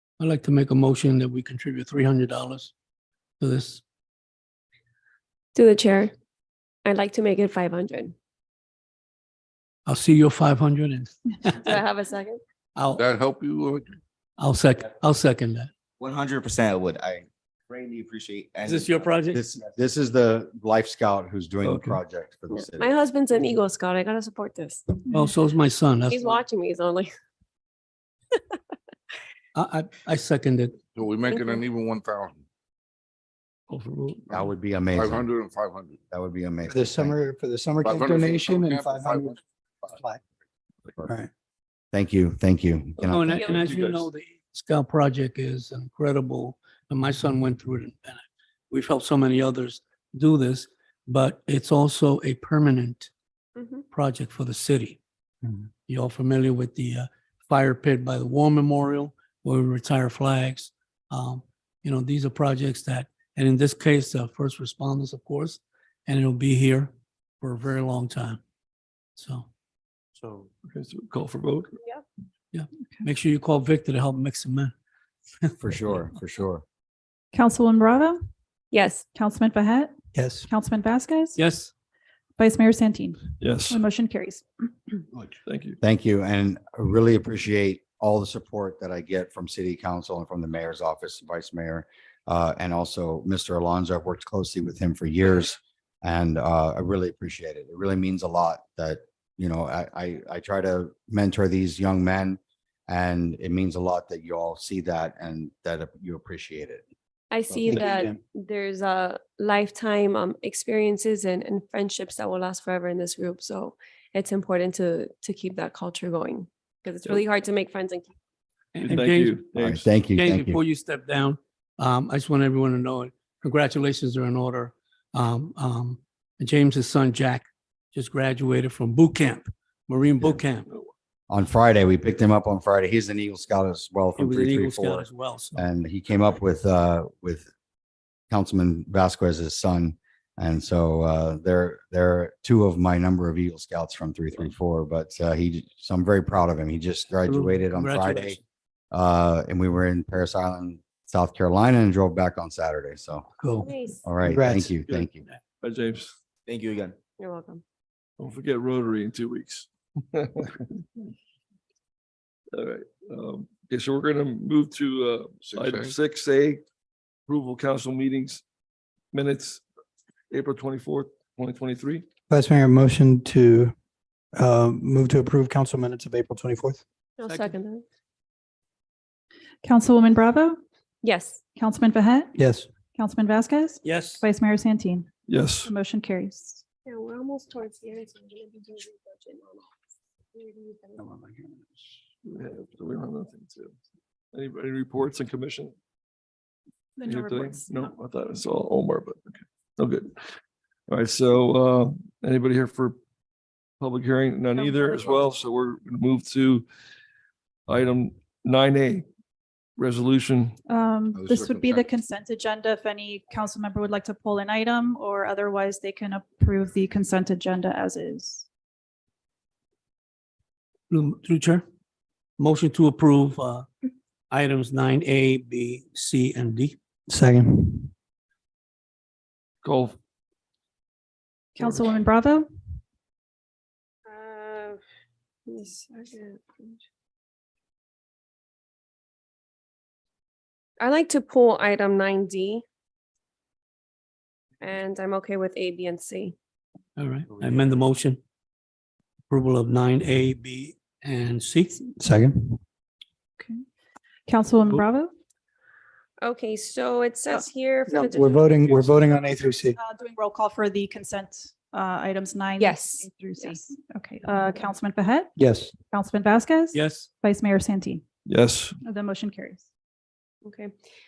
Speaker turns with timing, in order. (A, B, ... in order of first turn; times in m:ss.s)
0:00.2-0:02.7 A
0:03.4-0:03.8 A
0:05.6-0:06.1 B
0:06.8-0:08.1 B
0:09.9-0:11.6 A
0:11.6-0:12.4 B
0:12.8-0:13.0 A
0:12.9-0:13.9 C
0:14.4-0:15.7 A
0:16.0-0:19.3 D
0:18.6-0:19.4 A
0:19.3-0:22.9 E
0:21.6-0:22.0 F
0:22.5-0:24.9 B
0:25.1-0:26.4 A
0:26.1-0:27.1 B
0:29.6-0:30.8 A
0:30.9-0:32.4 C
0:31.3-0:31.6 B
0:33.7-0:34.2 A
0:34.3-0:35.3 E
0:34.9-0:36.0 C
0:36.1-0:37.2 E
0:36.6-0:39.4 G
0:37.8-0:39.9 C
0:39.9-0:40.2 G
0:41.0-0:41.3 G
0:41.9-0:43.6 E
0:43.0-0:53.1 A
0:43.1-0:43.6 B
0:43.5-0:44.0 F
0:53.6-0:53.8 B
0:53.9-0:55.0 A
0:55.9-1:08.4 A
1:09.2-1:09.5 A
1:10.7-1:11.7 F
1:12.5-1:14.7 A
1:15.6-1:16.6 E
1:17.3-1:18.2 H
1:18.7-1:19.0 B
1:19.1-1:21.4 H
1:20.2-1:20.5 G
1:21.4-1:21.7 A
1:22.4-1:25.0 H
1:23.4-1:23.8 F
1:25.4-1:25.8 F
1:25.8-1:46.8 E
1:47.3-1:58.1 B
1:47.5-1:47.9 E
1:47.7-1:48.2 G
1:58.8-1:59.4 A
1:58.8-1:59.9 F
1:59.6-2:00.6 E
2:00.2-2:10.7 A
2:11.3-2:17.5 E
2:14.2-2:15.6 A
2:18.3-2:28.4 E
2:27.2-2:28.4 A
2:28.9-2:33.3 E
2:33.4-2:33.7 A
2:33.6-2:34.0 B
2:34.0-2:35.2 E
2:34.2-2:34.7 G
2:34.8-2:35.4 A
2:35.6-2:36.1 F
2:36.5-2:37.0 D
2:37.2-2:37.6 B
2:38.2-2:40.8 F
2:42.5-2:46.6 F
2:45.4-2:46.0 C
2:47.3-2:48.4 F
2:49.1-2:49.6 F
2:50.3-2:52.1 F
2:52.3-2:53.7 G
2:54.4-2:56.8 G
2:57.2-2:57.8 B
2:57.3-2:57.6 A
2:59.6-3:00.6 H
3:01.0-3:01.4 B
3:01.6-3:05.1 H
3:02.4-3:02.7 G
3:03.8-3:04.2 A
3:05.3-3:05.7 F
3:05.6-3:06.6 H
3:06.9-3:09.7 B
3:10.4-3:11.0 B
3:11.0-3:11.3 G
3:12.3-3:13.8 F
3:14.3-3:15.8 F
3:17.0-3:17.9 H
3:17.0-3:20.2 F
3:20.9-3:23.0 F
3:23.8-3:26.7 F
3:24.6-3:25.2 H
3:27.7-3:29.1 F
3:29.8-3:30.6 F
3:30.7-3:38.5 H
3:31.2-3:31.9 C
3:40.9-3:41.7 A
3:42.4-3:43.7 A
3:44.3-3:46.8 A
3:47.1-3:47.9 G
3:49.6-3:50.0 F
3:51.6-3:52.5 H
3:54.1-3:54.8 B
3:55.5-3:56.8 B
4:00.8-4:02.6 B
4:04.6-4:06.4 B
4:07.0-4:08.2 A
4:09.3-4:11.8 A
4:12.0-4:12.6 G
4:14.3-4:15.1 H
4:16.2-4:18.5 B
4:17.9-4:19.8 G
4:18.7-4:19.3 F
4:19.6-4:25.3 H
4:22.6-4:23.6 B
4:25.4-4:25.7 G
4:25.9-4:28.0 H
4:26.7-4:27.1 A
4:28.3-4:28.8 F
4:28.8-4:29.7 H
4:30.4-4:30.7 B